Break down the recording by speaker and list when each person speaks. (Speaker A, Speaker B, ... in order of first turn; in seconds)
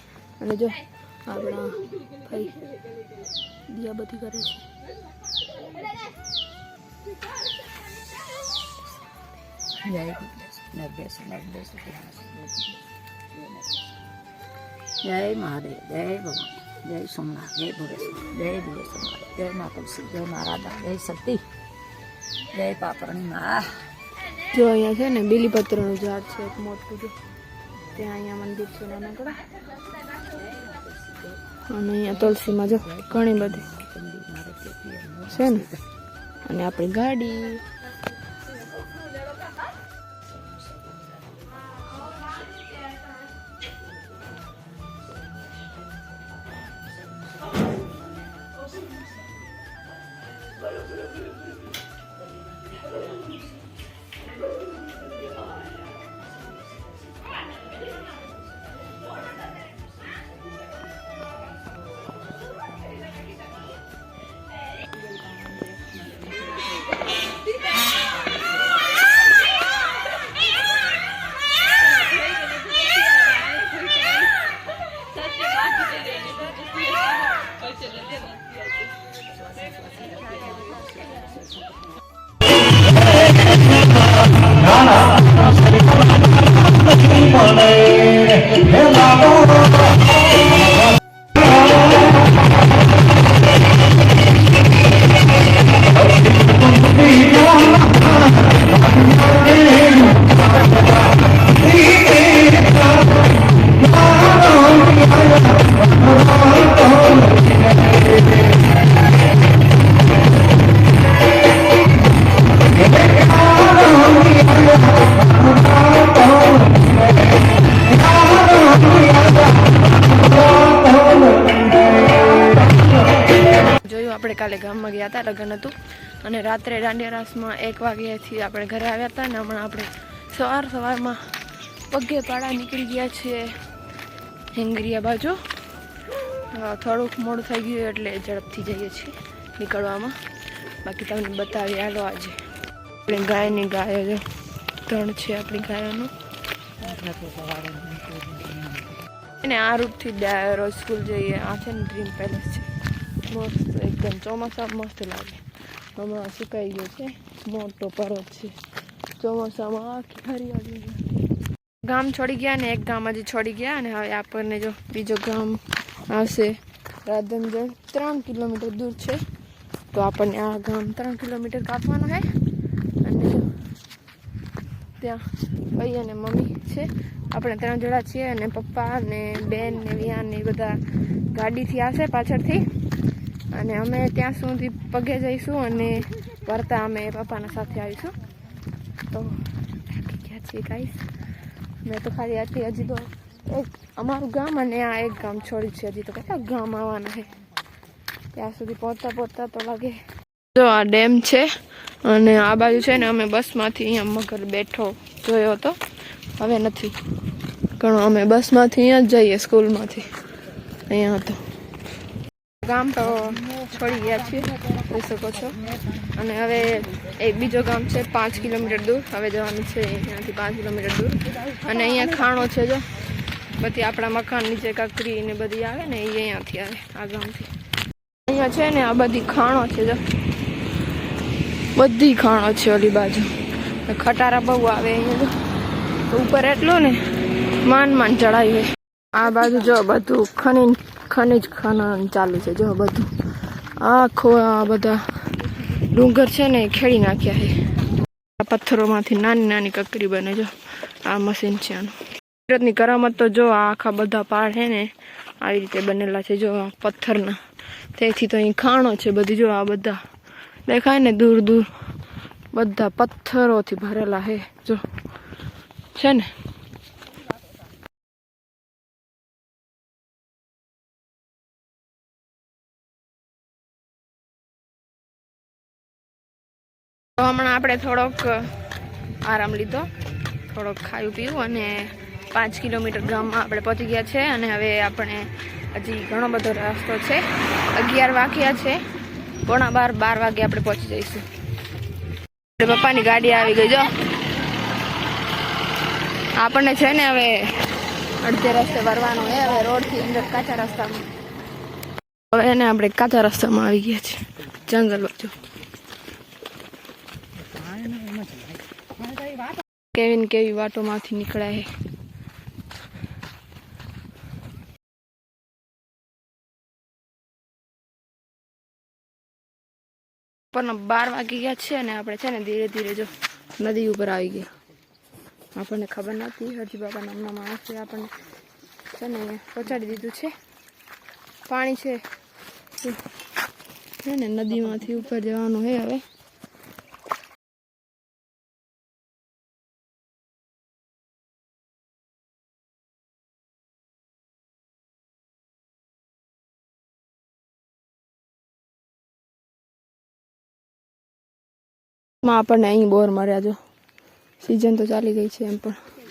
Speaker A: 0.4-2.6, 3.7-4.7, 24.5-27.1, 27.9-29.4, 31.7-33.6, 35.3-35.7, 36.5-37.6, 123.7-131.4, 131.9-133.6, 134.5-135.4, 136.5-140.2, 140.8-142.4, 143.1-144.3, 144.8-146.1, 149.4-152.7, 153.2-155.4, 155.9-158.6, 159.2-161.1, 161.8-169.2, 169.9-172.3, 173.0-173.5, 175.0-182.7, 183.5-188.2, 189.1-191.0, 191.8-197.3, 198.3-200.0, 200.5-205.8, 206.4-207.0, 207.8-210.1, 210.9-211.4, 212.6-223.0, 223.5-227.5, 228.3-230.0, 231.8-233.3, 233.9-235.3, 236.1-237.1, 237.6-243.1, 243.8-247.6, 248.4-252.0, 252.5-257.4, 257.9-260.0, 260.7-261.7, 262.5-264.9, 265.9-266.3, 277.2-278.5, 279.2-279.9, 280.5-288.8, 289.4-291.3, 292.6-294.1, 296.4-297.5, 298.2-301.1, 302.3-305.3, 309.9-311.7, 320.5-324.5, 325.6-328.1, 328.9-330.3, 331.5-332.1, 334.0-336.1, 352.2-353.6, 354.4-355.8
Speaker B: 9.8-13.9, 15.0-21.4, 22.5-23.8, 30.3-31.4, 32.0-35.8, 97.0-97.4, 146.8-149.0, 307.7-308.2